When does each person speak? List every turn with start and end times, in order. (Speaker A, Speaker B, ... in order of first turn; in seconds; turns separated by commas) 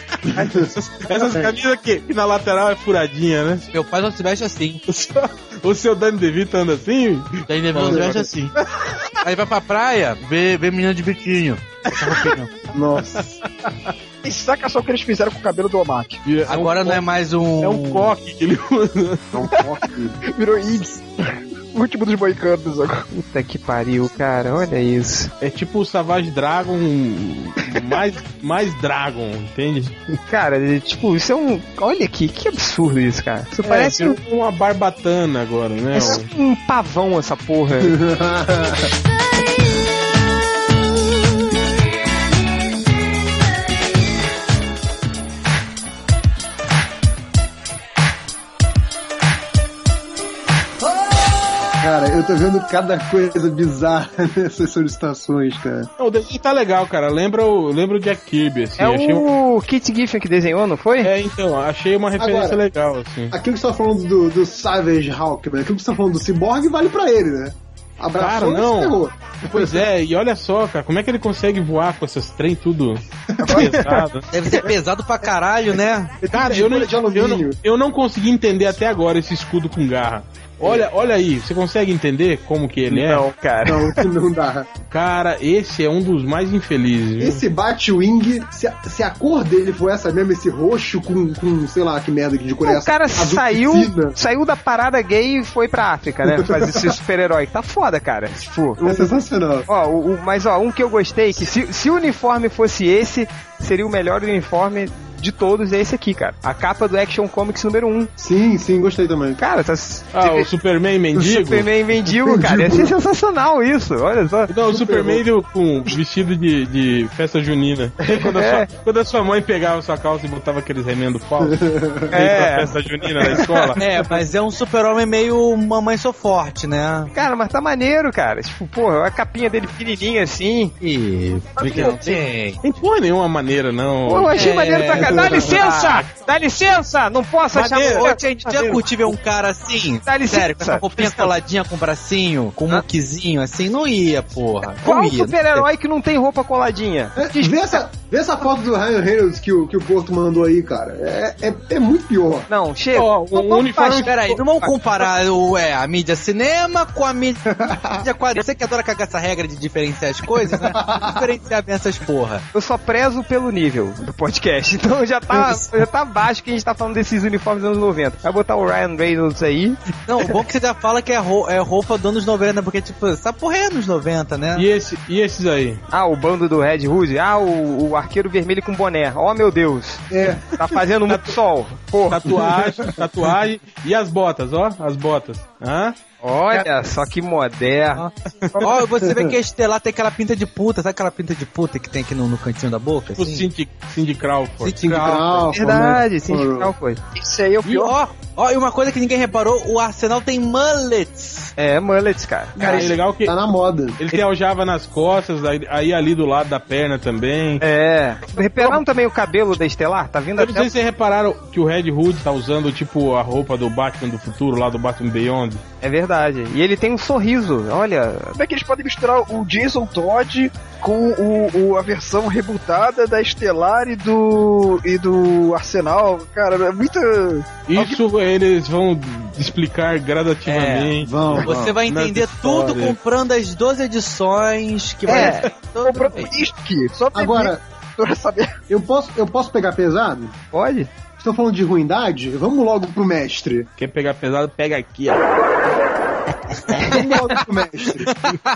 Speaker A: 0.3-0.7, Speaker B: 0.5-3.6, Speaker C: 3.7-4.8, Speaker B: 4.9-8.1, Speaker C: 7.5-8.5, Speaker A: 7.8-8.3, Speaker C: 9.2-12.5, Speaker A: 12.7-13.4, Speaker D: 14.2-16.2, Speaker B: 16.2-17.0, Speaker C: 16.5-18.1, Speaker B: 17.6-19.4, Speaker A: 19.3-20.2, Speaker D: 20.3-23.1, Speaker E: 23.1-25.3, Speaker B: 25.4-30.1, Speaker E: 30.3-34.2, Speaker B: 33.6-36.3, Speaker E: 35.9-38.0, Speaker A: 37.8-38.9, Speaker A: 51.8-55.9, Speaker B: 56.0-59.2, Speaker E: 58.8-61.1, Speaker B: 61.0-63.3, Speaker A: 62.2-62.6, Speaker A: 63.3-69.8, Speaker B: 68.2-69.0, Speaker B: 69.5-74.2, Speaker A: 73.4-73.7, Speaker D: 73.4-73.7, Speaker E: 73.5-74.0, Speaker C: 74.3-76.1, Speaker A: 76.2-77.6, Speaker B: 76.3-83.2, Speaker E: 82.9-84.0, Speaker A: 83.7-84.7, Speaker B: 84.9-87.4, Speaker A: 87.2-94.1, Speaker E: 92.6-99.1, Speaker A: 96.3-96.8, Speaker A: 98.8-99.7, Speaker E: 99.7-108.1, Speaker A: 108.2-109.4, Speaker E: 109.4-110.5, Speaker B: 110.1-111.7, Speaker E: 111.2-114.5, Speaker A: 112.1-112.9, Speaker B: 114.5-121.6, Speaker A: 114.7-115.2, Speaker E: 118.2-118.7, Speaker A: 121.4-122.1, Speaker E: 122.1-123.4, Speaker B: 122.1-123.8, Speaker C: 123.8-127.1, Speaker E: 127.1-130.7, Speaker C: 130.8-132.6, Speaker B: 131.7-132.0, Speaker B: 132.6-134.3, Speaker E: 134.1-138.8, Speaker C: 134.3-135.5, Speaker A: 135.2-135.5, Speaker B: 135.2-136.1, Speaker B: 137.5-138.1, Speaker C: 137.7-145.6, Speaker E: 140.1-141.3, Speaker E: 144.8-147.8, Speaker A: 147.2-152.5, Speaker E: 152.5-154.7, Speaker B: 152.9-154.2, Speaker C: 153.8-157.4, Speaker A: 157.5-158.1, Speaker C: 158.0-162.4, Speaker A: 160.6-161.2, Speaker E: 162.5-169.8, Speaker C: 170.0-174.6, Speaker B: 174.6-175.8, Speaker E: 175.9-182.3, Speaker A: 180.1-180.5, Speaker B: 181.1-181.3, Speaker B: 182.1-186.0, Speaker A: 182.2-182.9, Speaker E: 186.2-188.0, Speaker C: 187.9-193.5, Speaker A: 189.0-189.3, Speaker B: 193.2-194.8, Speaker C: 194.6-195.5, Speaker A: 194.8-196.7, Speaker E: 195.5-197.0, Speaker D: 197.1-197.9, Speaker C: 197.6-201.5, Speaker E: 201.6-202.9, Speaker A: 202.6-204.0, Speaker B: 202.6-203.3, Speaker B: 204.0-207.6, Speaker E: 207.6-210.7, Speaker B: 210.4-215.6, Speaker E: 215.8-218.4, Speaker D: 218.3-228.0, Speaker B: 227.7-232.9, Speaker C: 230.4-236.3, Speaker A: 231.0-231.7, Speaker E: 235.1-235.5, Speaker D: 235.8-238.5, Speaker A: 237.1-237.6, Speaker A: 238.7-240.3, Speaker E: 240.5-240.9, Speaker A: 241.2-243.7, Speaker B: 243.8-245.3, Speaker E: 246.8-247.0, Speaker A: 246.8-248.1